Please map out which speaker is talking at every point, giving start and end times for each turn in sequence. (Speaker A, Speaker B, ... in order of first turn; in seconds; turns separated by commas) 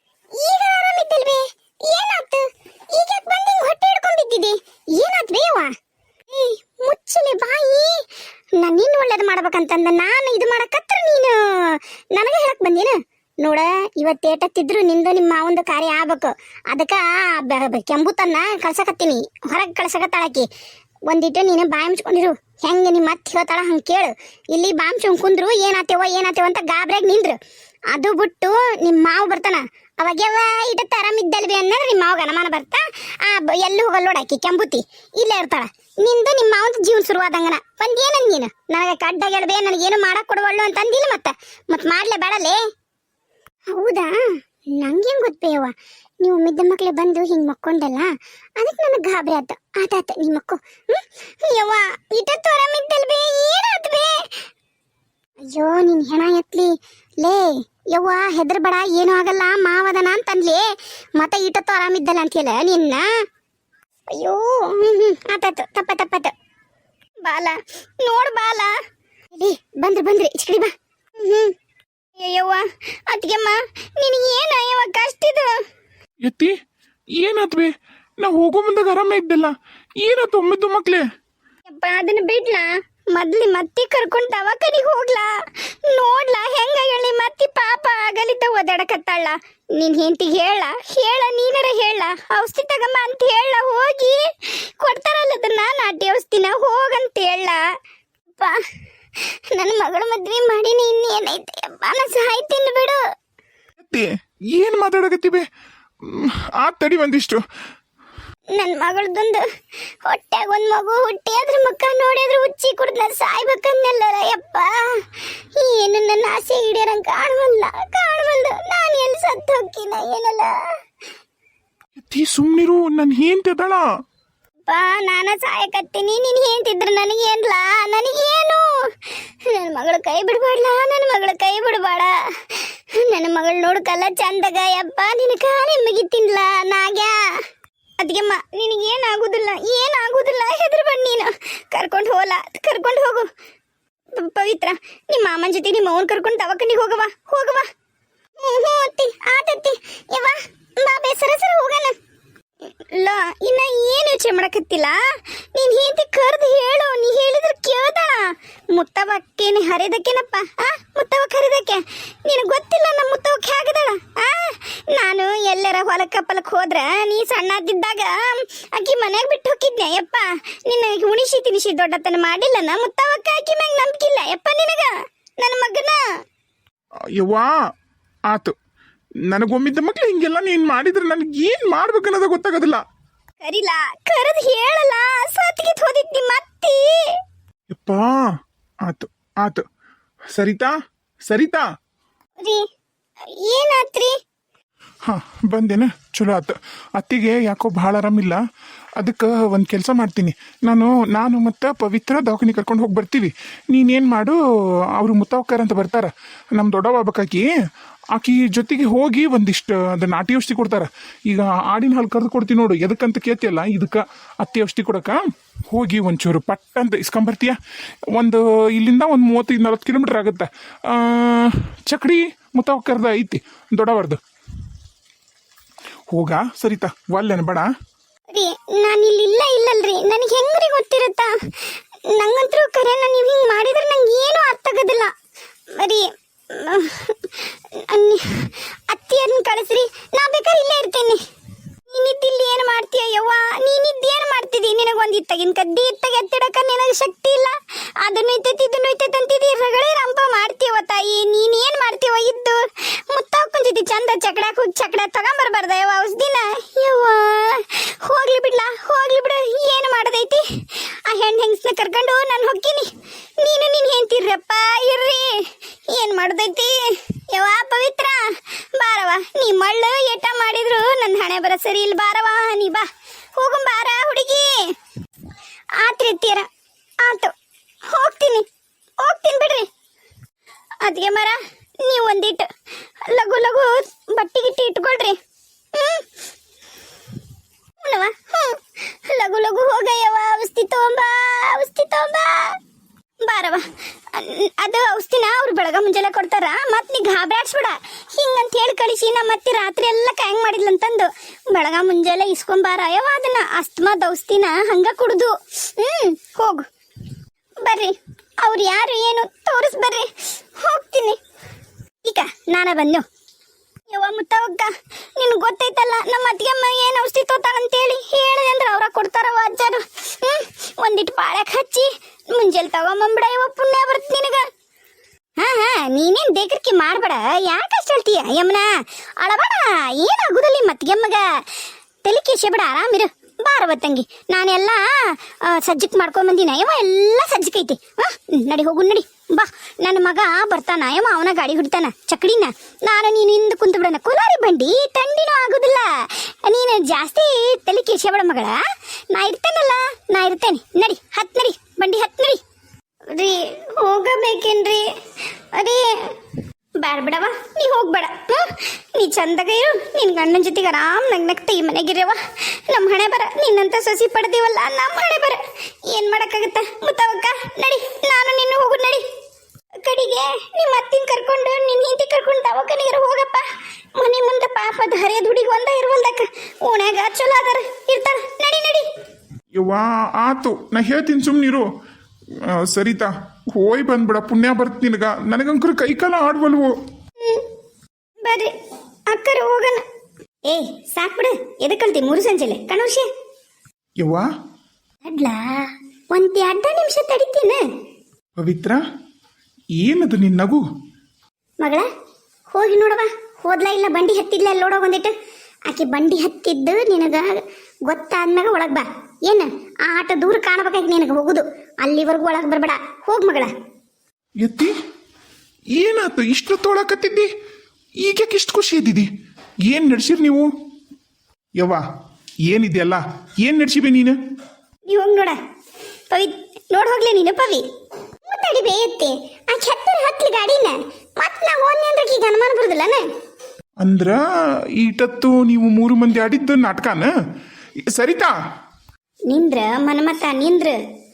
Speaker A: 0.3-5.7, Speaker A: 6.3-8.0, Speaker A: 8.6-20.5, Speaker A: 21.1-27.4, Speaker A: 27.9-42.6, Speaker A: 43.7-54.3, Speaker A: 55.4-63.1, Speaker A: 64.1-66.3, Speaker A: 67.2-68.8, Speaker A: 69.3-71.5, Speaker A: 72.2-75.6, Speaker B: 76.2-76.5, Speaker B: 77.2-81.0, Speaker A: 81.7-97.6, Speaker A: 99.2-103.0, Speaker B: 103.8-105.5, Speaker B: 106.0-107.4, Speaker A: 108.5-109.4, Speaker A: 110.0-120.7, Speaker B: 122.0-123.9, Speaker A: 124.7-137.4, Speaker A: 138.0-143.3, Speaker A: 144.1-147.7, Speaker A: 148.4-152.0, Speaker A: 152.7-155.0, Speaker A: 155.5-176.0, Speaker B: 177.2-177.5, Speaker B: 178.3-178.5, Speaker B: 179.3-182.8, Speaker A: 183.4-187.2, Speaker B: 187.7-188.2, Speaker B: 188.8-189.6, Speaker B: 190.3-190.7, Speaker B: 191.3-191.7, Speaker A: 193.3-194.2, Speaker B: 195.1-198.4, Speaker B: 199.0-204.4, Speaker B: 205.0-207.5, Speaker B: 208.1-217.6, Speaker B: 218.2-224.2, Speaker B: 226.1-227.7, Speaker A: 228.3-235.1, Speaker A: 235.7-241.2, Speaker A: 241.9-274.7, Speaker A: 275.8-276.5, Speaker A: 277.0-277.3, Speaker A: 277.9-278.5, Speaker A: 279.0-279.7, Speaker A: 280.8-282.5, Speaker A: 283.0-285.2, Speaker A: 285.7-286.1, Speaker A: 287.8-292.6, Speaker A: 293.2-306.7, Speaker A: 307.6-311.2, Speaker A: 312.0-313.1, Speaker A: 313.9-324.5, Speaker A: 325.4-331.4, Speaker A: 332.0-352.4, Speaker A: 353.1-354.9, Speaker A: 355.5-356.1, Speaker A: 356.8-369.0, Speaker A: 369.8-378.9, Speaker B: 379.5-381.7, Speaker B: 382.4-386.7, Speaker A: 387.2-387.4, Speaker A: 388.2-388.5, Speaker A: 389.1-389.8, Speaker A: 390.4-393.1, Speaker B: 394.0-394.3, Speaker A: 395.0-397.6, Speaker B: 398.4-398.8, Speaker B: 399.8-400.6, Speaker A: 401.6-401.9, Speaker A: 402.5-405.1, Speaker A: 405.7-413.5, Speaker B: 414.4-414.7, Speaker B: 415.8-417.3, Speaker B: 418.0-419.1, Speaker B: 419.7-420.5, Speaker B: 421.6-421.8, Speaker B: 422.5-424.2, Speaker A: 424.9-425.4, Speaker A: 426.1-427.7, Speaker A: 428.2-433.1, Speaker B: 433.8-434.2, Speaker B: 434.7-437.1, Speaker B: 437.9-438.3, Speaker A: 439.3-440.8